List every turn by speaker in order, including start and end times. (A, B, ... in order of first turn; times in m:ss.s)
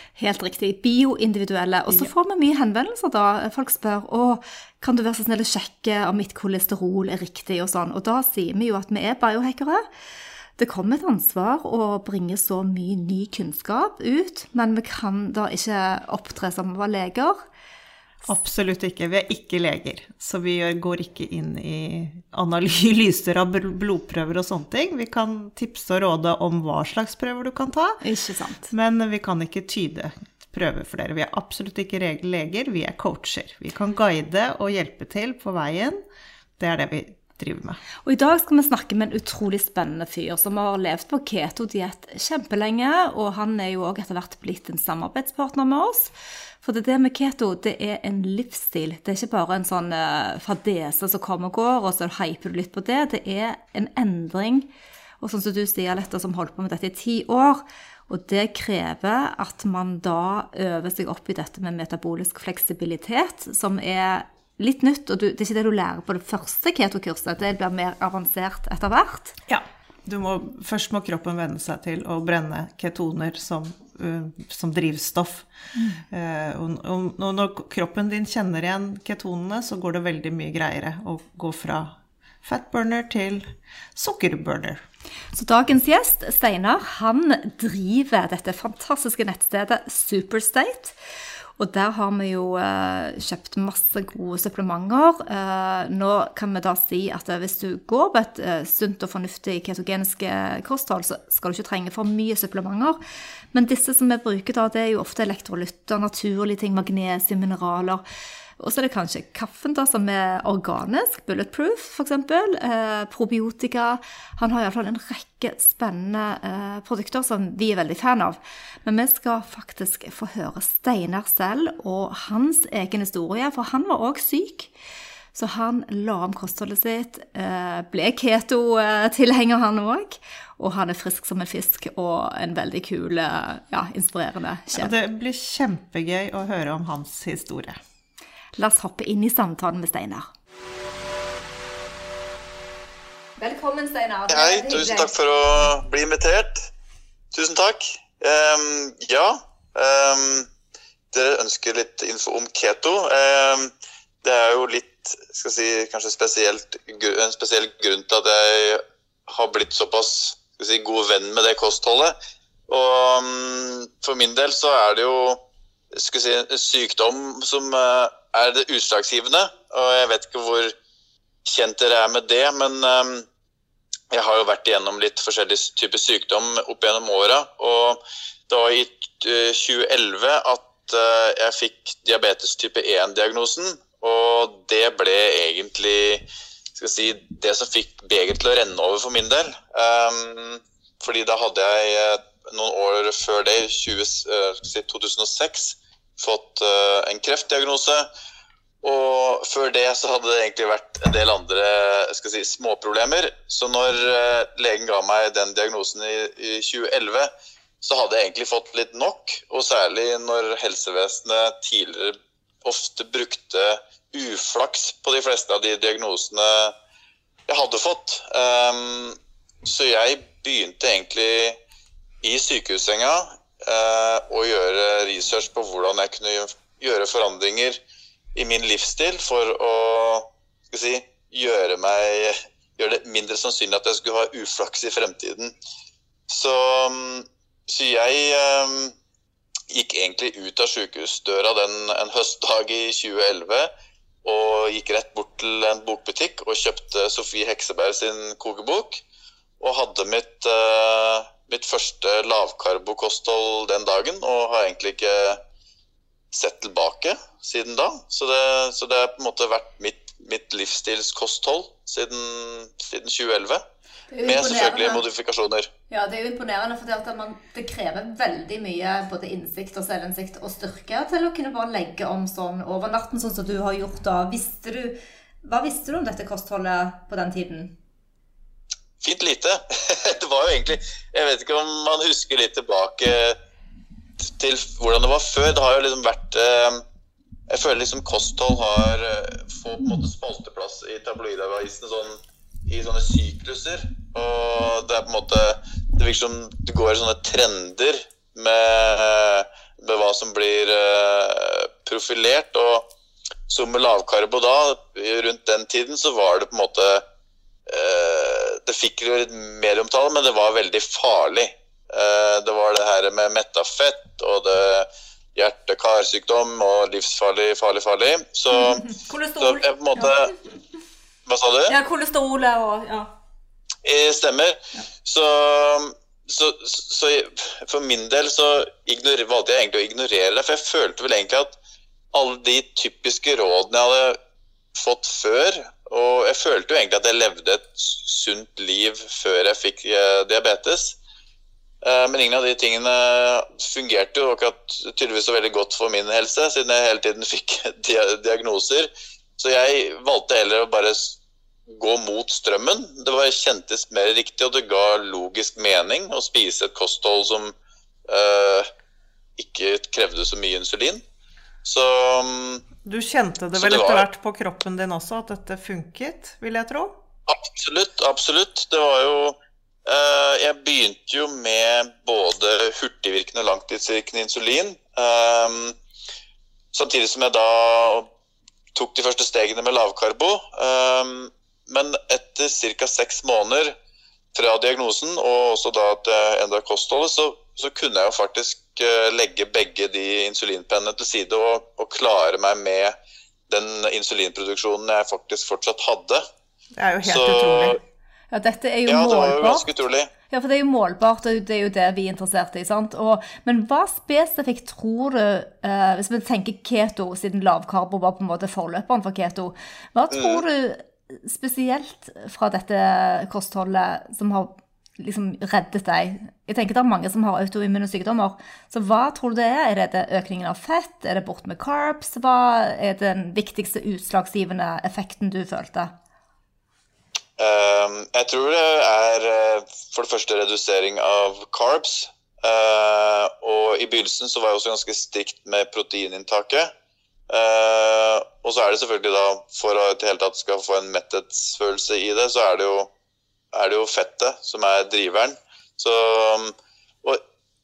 0:00.2-0:09.8 A
0:10.6-0:17.4 A
0:18.2-0:28.0 B
0:28.0-0:28.7 A
0:28.7-0:36.0 B
0:36.6-0:37.8 B
0:38.0-0:46.1 A
0:46.6-0:54.7 A
0:55.2-1:09.4 A
1:09.5-1:15.5 B
1:15.7-1:16.0 A
1:16.1-1:24.8 B
1:25.3-1:31.0 A
1:31.6-1:43.0 A
1:43.5-1:48.0 A
1:48.6-2:04.7 A
2:05.3-2:15.0 A
2:14.7-2:17.8 B
2:18.6-2:20.3 A
2:23.4-2:25.1 A
2:24.3-2:26.7 C
2:27.3-2:30.5 C
2:31.1-2:33.7 C
2:34.2-2:42.1 C
2:42.7-2:45.4 C
2:45.9-2:50.7 C
2:51.4-2:53.3 C
2:54.1-3:18.1 C
3:18.8-3:27.3 C
3:27.8-3:36.7 C
3:37.5-3:41.6 C
3:42.2-3:47.8 C
3:48.3-3:55.5 C
3:56.3-3:58.9 C
3:59.7-4:03.7 C
4:04.2-4:09.0 C
4:09.6-4:15.4 C
4:16.3-4:23.6 C
4:24.1-4:25.0 A
4:24.2-4:25.7 C
4:25.9-4:37.8 A
4:39.0-4:43.4 C
4:44.2-4:46.8 C
4:47.5-5:02.9 C
5:03.5-5:07.0 C
5:07.7-5:18.9 C
5:18.5-5:20.2 A
5:19.4-5:20.3 C
5:21.2-5:21.7 C
5:21.7-5:23.1 A
5:23.8-5:31.6 C
5:32.1-5:34.2 C
5:34.7-5:41.0 C
5:41.8-5:57.5 C
5:58.1-5:58.7 C
5:59.4-6:01.0 C
6:01.6-6:02.6 C
6:02.8-6:07.0 B
6:03.6-6:04.0 C
6:07.3-6:15.8 C
6:16.7-6:18.1 C
6:18.7-6:23.7 C
6:24.3-6:32.9 C
6:33.5-6:36.2 C
6:36.8-6:37.8 B
6:37.0-6:37.8 C
6:38.3-6:39.7 A
6:38.9-6:40.1 C
6:40.3-7:05.9 A
6:50.1-6:50.4 C
7:07.4-7:16.7 C
7:17.3-7:22.9 C
7:23.5-7:27.2 C